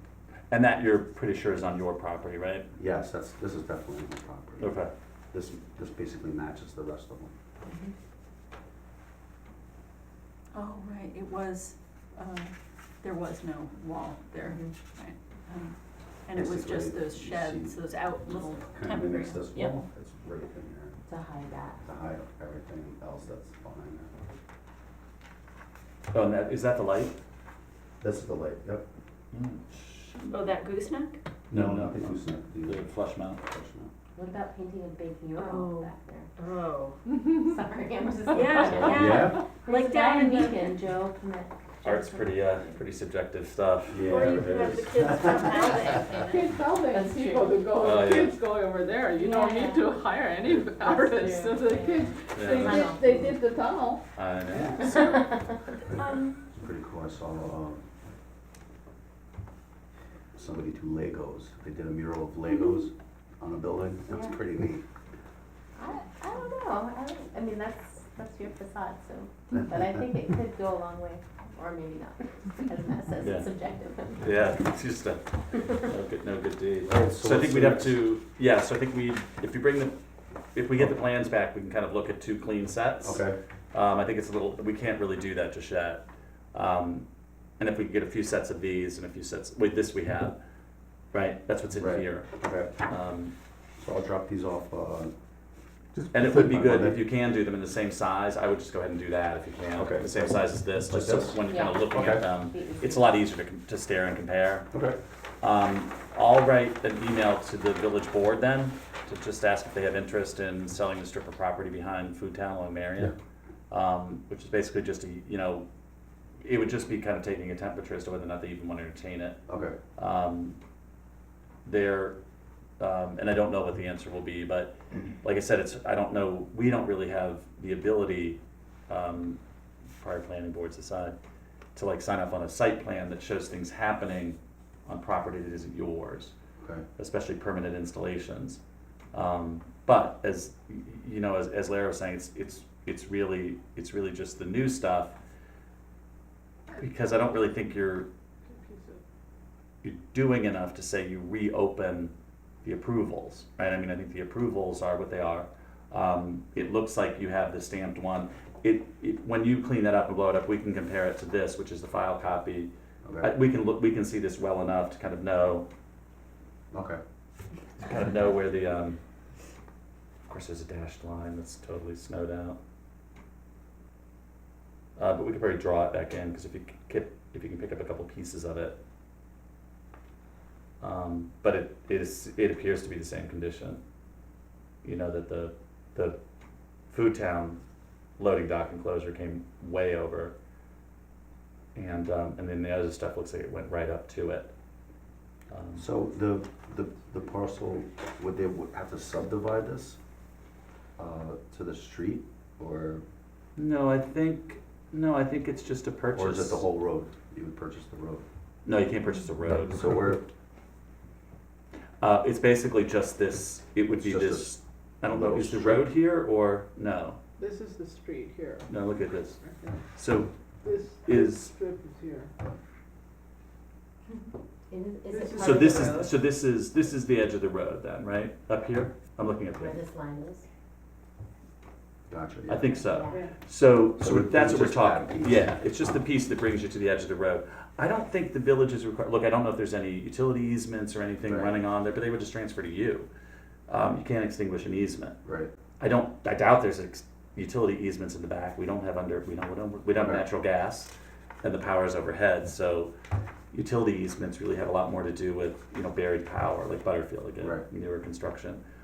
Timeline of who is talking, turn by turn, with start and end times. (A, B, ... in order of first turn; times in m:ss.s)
0:00.5-0:02.7 A
0:02.8-0:04.8 B
0:04.6-0:04.9 A
0:05.3-0:07.3 B
0:07.6-0:07.9 C
0:10.5-0:15.7 D
0:14.4-0:14.8 C
0:16.2-0:19.7 D
0:16.3-0:21.0 B
0:21.0-0:21.8 C
0:21.8-0:24.1 B
0:26.1-0:27.2 A
0:28.0-0:28.8 B
0:29.3-0:30.2 A
0:30.3-0:31.2 D
0:31.5-0:33.4 A
0:31.5-0:33.9 B
0:34.2-0:36.3 C
0:35.4-0:37.0 D
0:37.1-0:42.8 C
0:38.3-0:40.8 D
0:38.6-0:39.1 A
0:38.8-0:39.4 B
0:41.8-0:44.0 A
0:43.9-0:45.5 B
0:44.0-0:46.5 D
0:45.3-0:48.0 C
0:46.1-0:55.3 E
0:47.8-0:48.4 A
0:49.1-0:53.2 C
0:52.3-0:52.8 A
0:54.1-0:55.0 A
0:54.9-0:55.5 C
0:55.9-0:56.4 D
0:56.5-0:57.8 B
1:00.3-1:04.8 B
1:04.1-1:04.4 C
1:05.8-1:14.5 C
1:13.2-1:13.5 A
1:14.2-1:19.9 A
1:16.8-1:18.0 B
1:20.5-1:27.0 A
1:23.0-1:23.4 B
1:27.6-1:30.4 A
1:31.1-1:32.3 A
1:31.7-1:32.8 B
1:32.8-1:33.3 A
1:33.8-1:35.1 B
1:36.0-1:37.0 B
1:36.1-1:44.7 A
1:39.7-1:42.3 B
1:41.5-1:43.1 C
1:44.7-1:45.0 B
1:45.4-1:53.1 A
1:53.7-1:55.6 A
1:56.4-1:59.4 A
1:59.5-1:59.8 B
2:00.0-2:00.6 A
2:01.6-2:02.2 A
2:02.8-2:09.4 A
2:10.0-2:11.2 A
2:11.7-2:16.3 A
2:16.6-2:16.8 B
2:17.0-2:18.6 A
2:19.1-2:25.1 A
2:26.8-2:28.1 A
2:28.4-2:29.0 E
2:29.8-2:32.1 A
2:32.6-2:42.7 A
2:43.0-2:43.3 B
2:43.2-2:45.7 A
2:46.7-2:47.0 B
2:47.8-2:49.0 A
2:50.2-2:52.6 A
2:55.0-2:58.8 A
3:00.8-3:03.8 A
3:04.8-3:06.2 A
3:06.9-3:07.6 A
3:08.2-3:10.3 A
3:11.7-3:14.5 A
3:15.5-3:15.8 A
3:15.8-3:20.0 B
3:21.0-3:23.0 B
3:23.6-3:26.6 A
3:26.1-3:28.2 B
3:28.6-3:30.0 A
3:29.5-3:30.2 B
3:32.0-3:37.2 A
3:33.9-3:35.9 B
3:37.4-3:38.8 E
3:38.7-3:39.4 A
3:39.4-3:39.8 E
3:39.9-3:40.3 A
3:40.6-3:42.3 E
3:41.0-3:41.5 A
3:44.7-3:46.1 C
3:45.1-3:46.0 E
3:45.4-3:49.8 A
3:49.5-3:50.5 C
3:52.1-3:52.7 B
3:52.5-4:03.1 A
3:52.7-3:53.3 C
3:54.0-3:55.6 B
4:01.2-4:01.6 B
4:03.7-4:05.2 A
4:05.2-4:05.5 B
4:05.8-4:12.9 A
4:09.9-4:10.2 B
4:13.5-4:18.6 A